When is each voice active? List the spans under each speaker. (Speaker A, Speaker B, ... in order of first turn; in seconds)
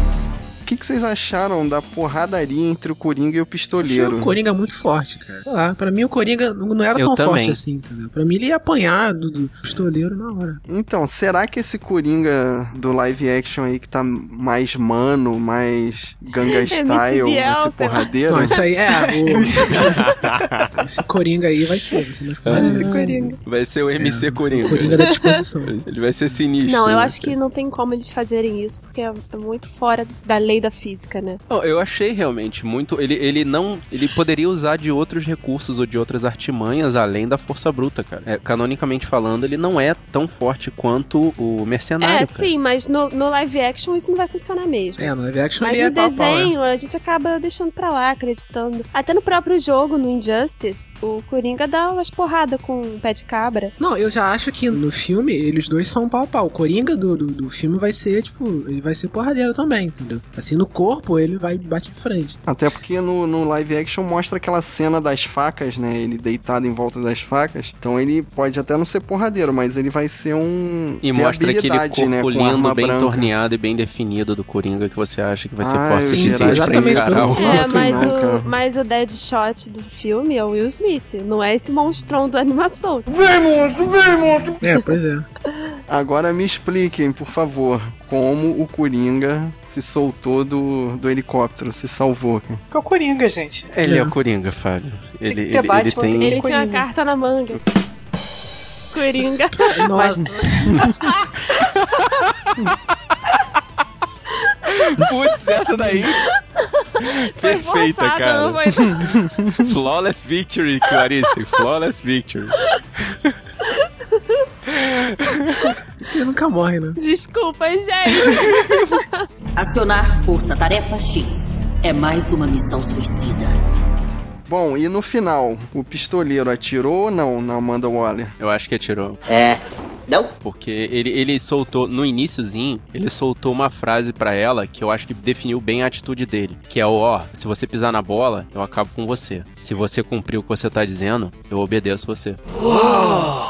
Speaker A: 0.6-4.3, 10.7-18.6, 62.5-73.3, 75.6-78.5, 85.9-92.6, 124.5-128.3
Speaker B: 3.8-10.6, 18.3-19.9, 20.8-23.4, 24.0-25.7, 45.0-46.5, 53.8-62.4, 76.0-78.0, 84.6-85.2, 93.8-94.1, 99.7-100.9, 116.0-117.0
Speaker C: 7.0-7.6, 20.0-20.7, 22.4-25.1, 25.6-27.3, 31.5-42.5, 71.0-78.0, 93.7-96.4, 101.6-102.3, 104.8-106.2, 107.0-108.8, 109.6-112.5, 113.1-113.3, 114.7-115.6, 128.4-129.2, 130.4-142.4
Speaker D: 16.7-18.7, 22.5-23.4, 25.1-25.3, 26.6-31.4, 42.0-53.7, 77.4-83.1, 96.2-97.6, 98.9-100.8, 106.6-109.2, 113.6-114.4, 117.0-119.2
Speaker E: 19.1-20.0, 92.7-93.7, 95.3-96.8, 142.8-143.3
Speaker F: 83.1-84.6, 129.3-129.6, 142.7-143.3
Speaker G: 119.5-123.5